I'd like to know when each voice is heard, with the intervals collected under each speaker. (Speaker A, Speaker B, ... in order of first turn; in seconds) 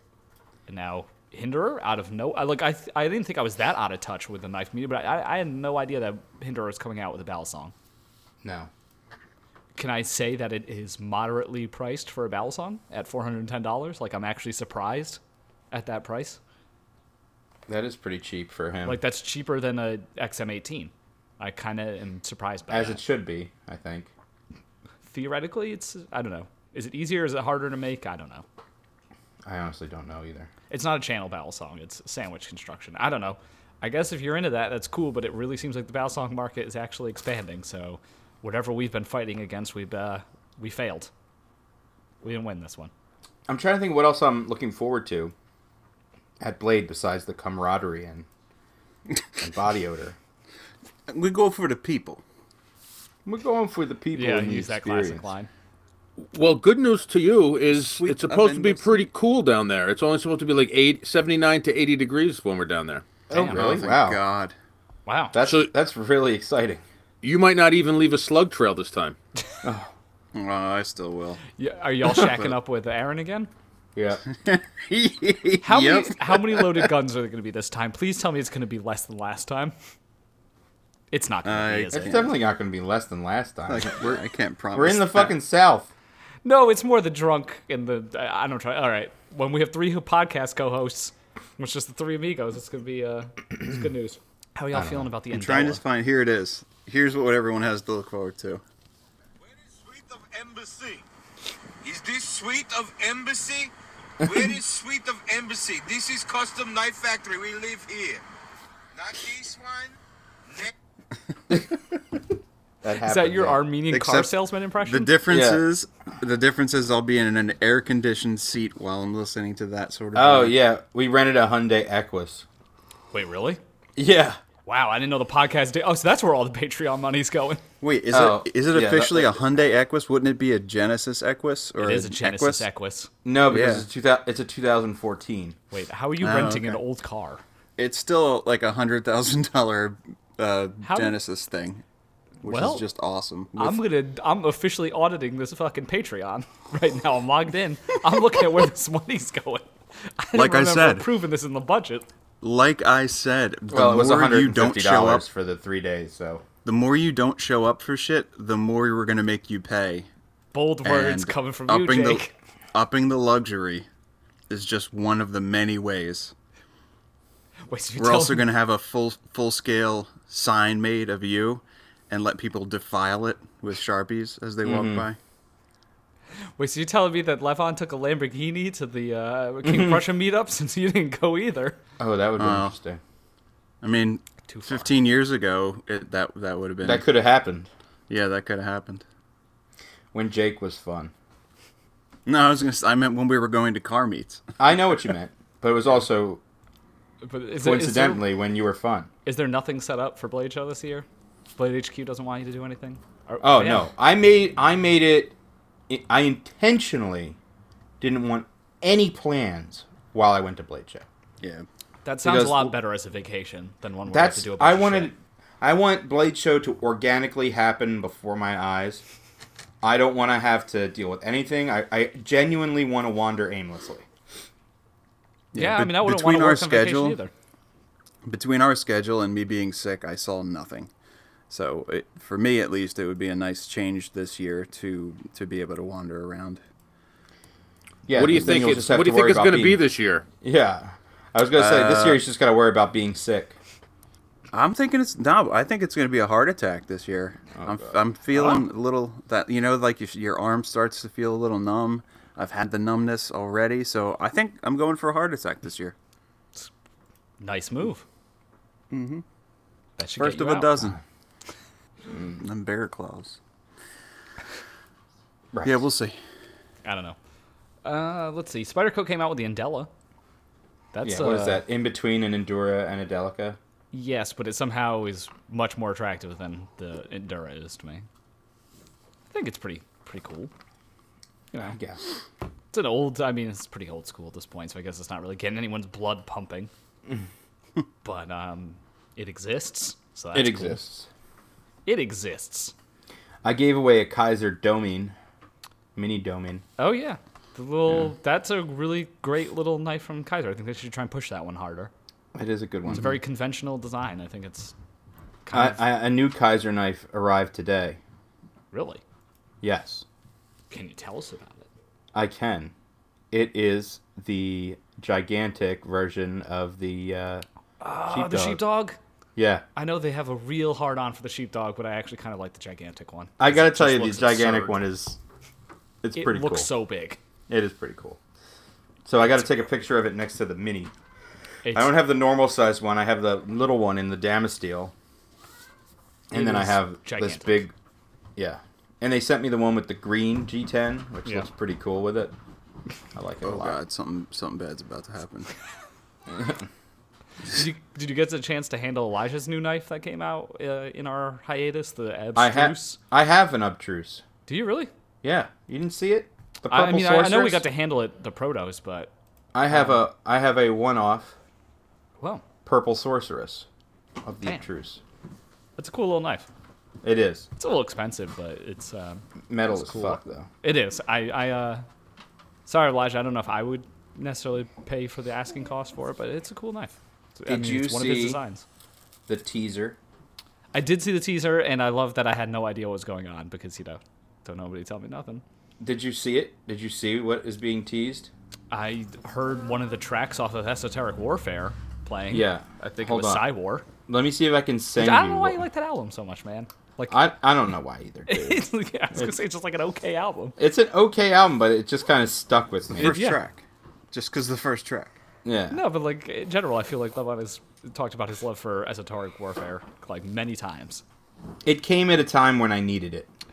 Speaker A: 0.7-7.7, 9.8-15.2, 15.7-16.4, 18.9-23.0, 25.1-28.4, 30.7-41.1, 42.2-42.9, 54.1-55.5, 63.3-63.7, 65.1-65.4, 71.6-73.5, 75.6-79.7, 81.1-82.2, 86.5-95.8, 113.0-115.1, 123.1-123.6, 124.7-127.6, 131.8-133.1, 135.7-137.4, 140.8-141.2, 142.4-142.9, 143.6-152.1, 160.5-162.3, 167.7-168.5, 176.6-181.8, 184.5-184.9, 197.2-198.3, 199.2-203.9, 212.0-215.1, 225.6-227.3, 257.4-258.1, 260.0-260.9, 266.8-267.2, 267.8-269.9, 270.9-271.7, 273.9-278.1, 279.3-280.5, 282.7-286.7, 288.0-290.8, 291.9-292.7, 296.8-301.9, 302.9-304.7, 305.4-305.8, 308.7-309.0, 310.7-311.7, 317.8-319.0, 319.8-324.8, 326.1-327.2, 331.6-332.0, 336.3-337.7, 347.5-353.0, 354.5-354.9, 356.7-359.1, 359.7-360.0, 365.8-366.5, 367.6-369.2, 369.9-371.9, 372.7-378.6, 380.7-385.4, 388.7-393.9, 395.0-397.3, 398.3-400.6, 403.0-403.4, 405.7-411.0
Speaker B: 8.4-8.7, 17.7-19.0, 22.7-24.1, 29.5-30.5, 43.5-45.3, 46.4-48.3, 49.4-50.2, 53.2-55.3, 63.3-64.2, 65.3-66.8, 69.6-69.9, 74.0-74.2, 81.9-84.1, 84.8-85.9, 94.7-95.1, 104.2-104.5, 111.5-111.8, 112.8-113.6, 115.3-115.6, 120.2-122.5, 124.0-124.4, 128.1-129.4, 133.2-135.6, 153.7-156.4, 174.6-175.1, 179.7-180.0, 182.0-183.0, 186.8-187.7, 190.1-191.1, 194.6-196.4, 197.6-199.1, 203.4-205.3, 205.9-207.4, 208.0-211.1, 212.2-212.8, 214.1-219.0, 219.8-224.1, 238.1-239.8, 240.4-243.6, 247.6-247.9, 262.1-262.4, 265.5-265.8, 271.0-273.6, 281.6-282.0, 290.3-291.1, 293.4-295.2, 295.9-296.6, 302.3-303.1, 305.5-308.0, 309.6-310.1, 312.1-312.7, 313.3-317.4, 318.1-318.6, 319.4-319.6, 323.4-325.2, 326.0-326.7, 327.5-328.2, 329.1-330.9, 331.7-334.9, 336.3-337.7, 338.4-342.3, 343.1-343.8, 346.3-346.7, 352.4-354.2, 355.2-357.6, 359.5-361.4, 362.6-363.7, 364.2-365.0, 367.0-367.5, 369.5-370.5, 377.5-378.4, 379.3-380.0, 385.8-388.3, 392.3-393.5, 394.1-395.6, 397.1-399.4, 400.6-403.2, 405.4-405.8, 411.6-413.3
Speaker C: 51.1-52.2, 57.7-59.1, 63.5-64.5, 70.3-71.4, 74.3-76.9, 81.4-82.4, 83.7-85.4, 95.3-98.6, 113.9-120.6, 127.8-132.7, 133.5-133.9, 136.2-136.8, 137.8-141.8, 142.4-143.8, 150.3-151.1, 152.4-155.3, 156.7-160.1, 160.8-163.9, 164.5-166.3, 168.0-175.2, 182.4-182.7, 183.8-187.1, 188.1-189.1, 192.3-194.4, 211.4-211.7, 225.5-227.2, 228.2-230.9, 231.5-236.6, 241.5-242.2, 244.5-255.9, 258.9-259.2, 260.2-261.0, 262.4-263.4, 265.6-266.2, 343.4-345.5, 403.0-405.2
Speaker D: 56.2-63.0, 65.5-65.7, 67.2-69.2, 238.1-240.2
Speaker E: 99.4-101.0, 101.8-103.7, 104.2-108.2, 109.0-110.0